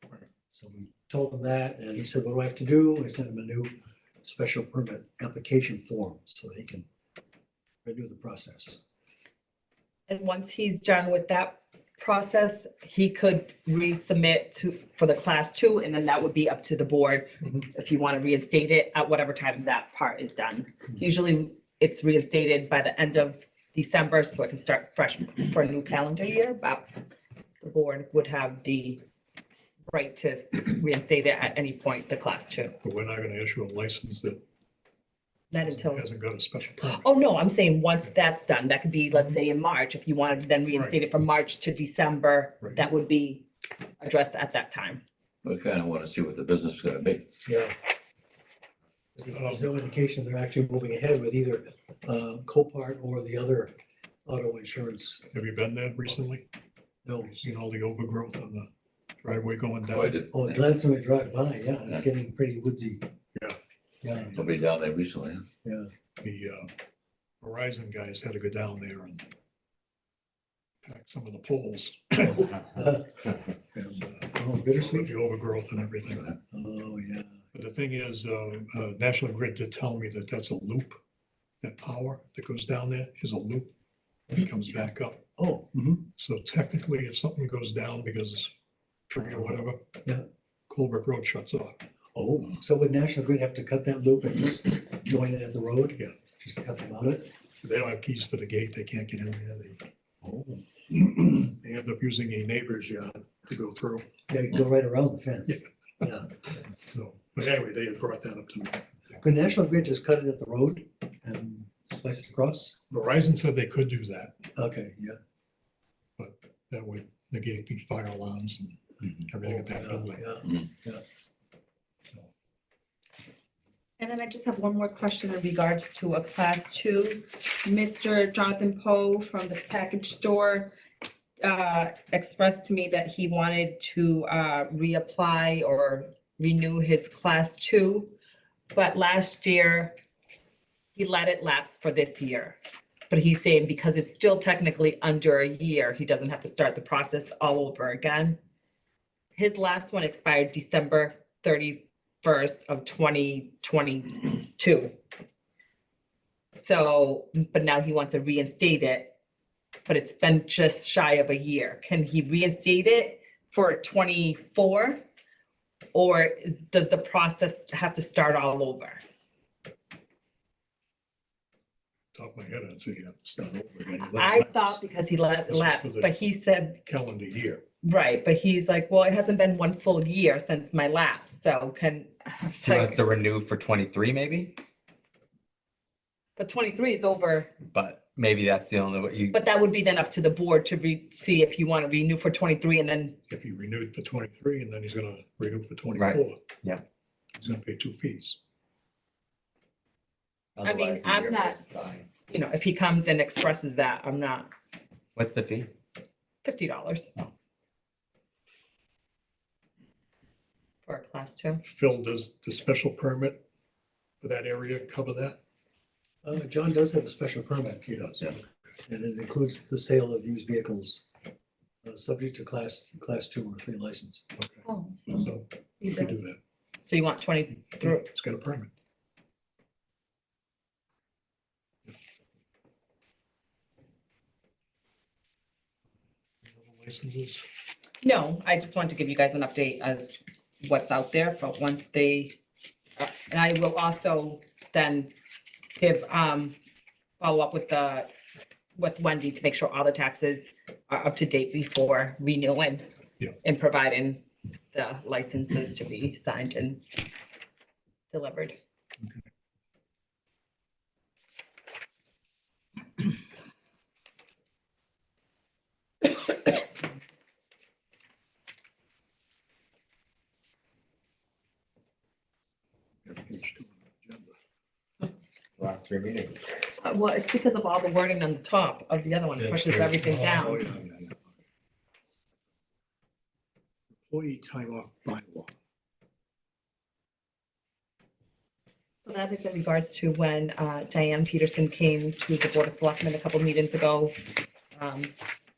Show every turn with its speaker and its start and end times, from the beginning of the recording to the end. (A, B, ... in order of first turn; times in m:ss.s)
0:00.5-0:06.9 A
0:07.8-0:08.8 A
0:10.1-0:27.0 B
0:27.6-0:29.0 B
0:29.9-0:32.7 B
0:32.8-0:34.4 C
0:35.5-0:36.0 B
0:35.6-0:37.0 C
0:36.8-0:43.4 B
0:40.7-0:41.0 C
0:44.0-0:45.0 B
0:45.4-0:47.3 D
0:47.4-0:47.7 A
0:49.1-0:53.7 A
0:49.3-0:49.6 C
0:54.2-0:55.3 A
0:55.3-0:56.4 C
0:57.0-0:57.3 A
0:57.2-0:58.7 C
0:59.2-1:00.2 C
0:59.9-1:00.5 D
1:00.3-1:03.1 A
1:03.3-1:04.5 C
1:04.0-1:04.4 A
1:04.3-1:05.4 D
1:05.6-1:05.9 A
1:06.2-1:06.7 C
1:07.4-1:09.3 C
1:10.8-1:12.6 C
1:12.4-1:13.2 A
1:13.7-1:15.1 A
1:13.8-1:16.3 C
1:16.5-1:17.4 A
1:17.5-1:21.0 C
1:21.6-1:23.7 C
1:24.3-1:25.3 C
1:25.4-1:26.1 A
1:26.2-1:28.5 C
1:29.1-1:30.0 C
1:30.7-1:31.8 C
1:32.1-1:37.3 A
1:37.6-1:39.8 C
1:40.2-1:40.6 A
1:40.9-1:44.2 C
1:44.3-1:46.3 A
1:46.7-1:48.8 C
1:49.2-1:52.8 A
1:52.9-1:54.4 C
1:54.5-1:55.2 A
1:56.2-2:00.3 C
1:59.4-2:01.0 A
2:04.0-2:10.7 B
2:11.4-2:18.2 B
2:18.7-2:20.0 B
2:21.0-2:22.6 B
2:23.1-2:28.4 B
2:29.4-2:34.9 B
2:36.5-2:39.1 B
2:39.8-2:45.0 B
2:45.9-2:49.0 B
2:52.1-2:54.8 C
2:54.0-2:56.8 B
2:55.5-2:56.1 C
2:56.8-2:57.6 C
2:57.8-3:03.0 B
3:02.6-3:04.5 E
3:06.4-3:07.5 B
3:07.7-3:09.4 E
3:09.3-3:13.2 B
3:13.3-3:16.4 C
3:16.0-3:16.8 E
3:17.4-3:18.4 C
3:20.6-3:22.0 E
3:20.6-3:21.6 B
3:22.3-3:24.5 B
3:25.2-3:25.7 E
3:26.4-3:27.1 B
3:30.9-3:31.6 B
3:31.6-3:33.4 C
3:34.2-3:35.4 C
3:36.2-3:37.8 A
3:37.8-3:38.4 C
3:38.9-3:41.0 A
3:41.8-3:44.2 A
3:44.4-3:46.4 C
3:44.6-3:45.2 B
3:45.8-3:46.1 B
3:46.8-3:48.1 B
3:47.8-3:48.7 C
3:56.4-3:57.4 C
3:58.0-4:02.4 B
4:03.0-4:06.6 B
4:07.2-4:08.1 B
4:08.8-4:12.8 B
4:13.4-4:16.8 B
4:18.1-4:18.6 B
4:33.0-4:34.3 C
4:35.6-4:36.5 E
4:36.8-4:40.6 B
4:39.4-4:40.5 E
4:40.3-4:41.3 C
4:44.0-4:45.5 C
4:49.0-4:55.1 B